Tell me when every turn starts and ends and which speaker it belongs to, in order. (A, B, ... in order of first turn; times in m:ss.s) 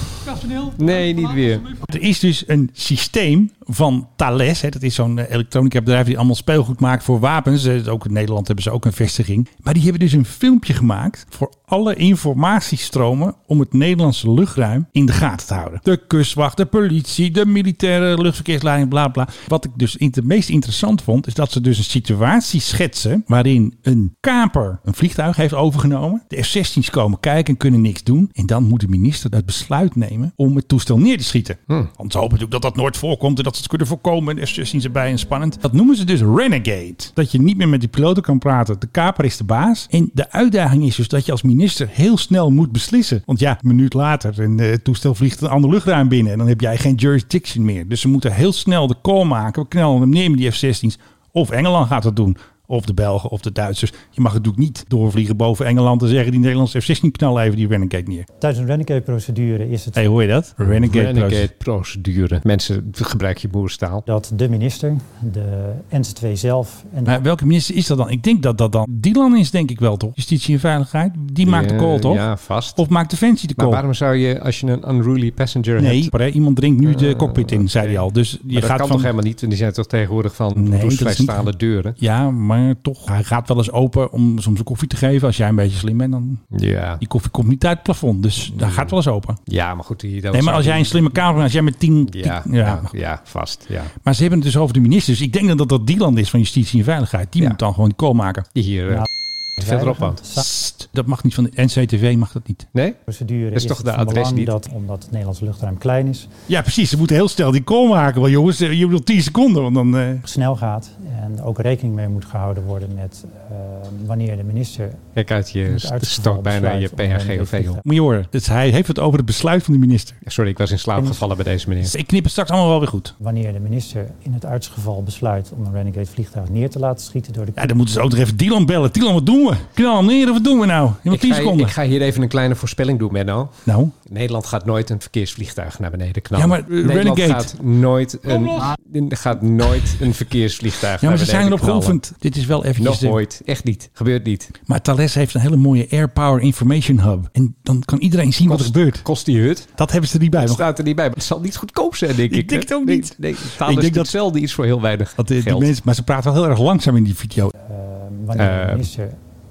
0:00.7-0:01.7 A
0:01.8-0:58.2 B
0:58.4-1:00.1 C
1:00.0-1:01.5 B
1:00.6-1:04.0 A
1:04.0-1:07.2 C
1:07.0-1:12.2 B
1:11.4-1:12.8 A
1:12.8-1:13.8 B
1:13.6-1:16.1 A
1:15.8-1:19.1 B
1:16.8-1:22.0 A
1:20.6-1:26.4 B
1:26.5-1:27.0 A
1:27.0-1:29.4 B
1:28.5-1:28.9 A
1:29.4-1:31.2 A
1:30.3-1:32.9 B
1:32.0-1:33.9 A
1:34.0-1:38.5 B
1:38.5-1:39.1 A
1:39.6-1:40.4 C
1:39.6-1:40.2 A
1:40.3-1:42.7 B
1:43.1-1:46.3 C
1:43.5-1:44.5 A
1:46.5-1:50.2 B
1:50.2-1:55.0 C
1:55.2-1:57.8 A
1:55.7-1:57.8 C
1:57.8-2:00.2 B
2:00.2-2:01.9 A
2:01.0-2:01.2 C
2:01.8-2:03.1 B
2:03.2-2:07.7 C
2:07.6-2:11.7 B
2:11.1-2:13.5 A
2:13.6-2:13.9 B
2:14.0-2:22.0 A
2:16.3-2:17.5 B
2:20.9-2:23.2 B
2:22.8-2:24.5 A
2:24.7-2:29.0 B
2:28.4-2:29.7 A
2:29.8-2:30.6 B
2:30.4-2:35.7 A
2:32.3-2:34.1 B
2:35.2-2:37.5 B
2:37.6-2:39.2 C
2:38.4-2:38.9 A